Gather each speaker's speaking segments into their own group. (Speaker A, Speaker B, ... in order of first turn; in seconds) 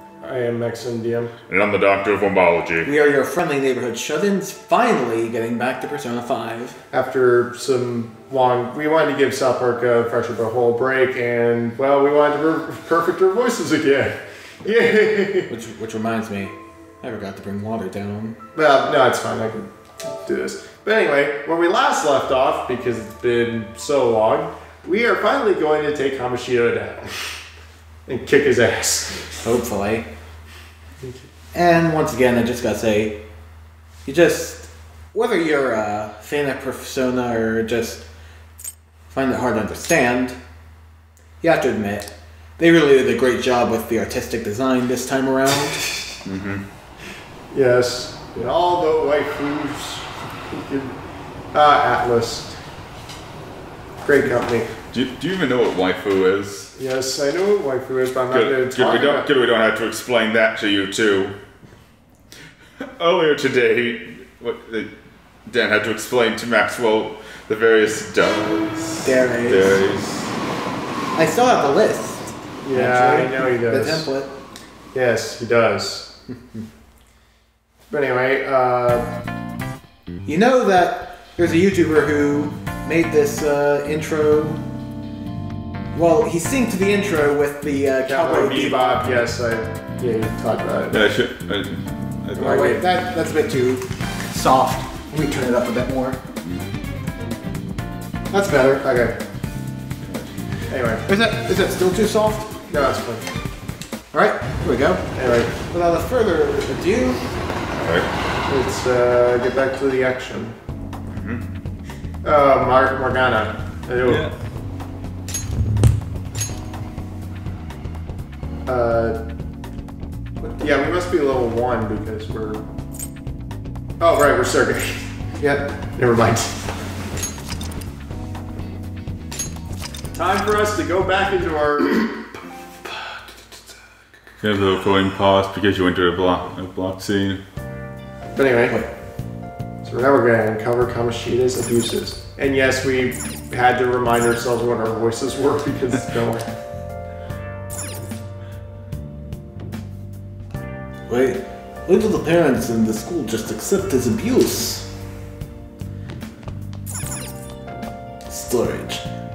Speaker A: 0.2-1.3, 6.9-15.5, 18.5-27.3, 28.1-29.4, 47.5-51.0, 51.5-52.6, 54.0-54.7, 56.8-59.3, 72.6-74.1, 74.9-76.1, 77.9-79.1, 88.0-91.0, 92.4-92.8, 98.3-99.2, 100.7-101.0, 102.7-103.3, 105.1-105.5, 108.5-110.5, 112.2-114.3, 118.7-119.2, 120.4-122.7, 124.0-126.7, 130.1-132.2, 138.3-138.8, 139.8-146.4
Speaker B: 1.5-2.9, 46.2-46.6, 54.9-56.7, 58.3-61.4, 62.8-64.9, 65.4-70.3, 90.9-92.7, 100.0-100.3, 107.8-108.1, 111.1-111.4, 114.0-114.3, 134.4-137.4
Speaker C: 2.8-6.8, 15.5-18.4, 29.4-30.1, 31.5-33.2, 34.0-38.0, 39.1-40.4, 41.4-45.8, 69.0-69.8, 71.1-74.3, 80.2-84.6, 85.9-89.0, 92.4-96.2, 101.1-102.6, 104.1-107.2, 151.1-154.9, 158.3-159.1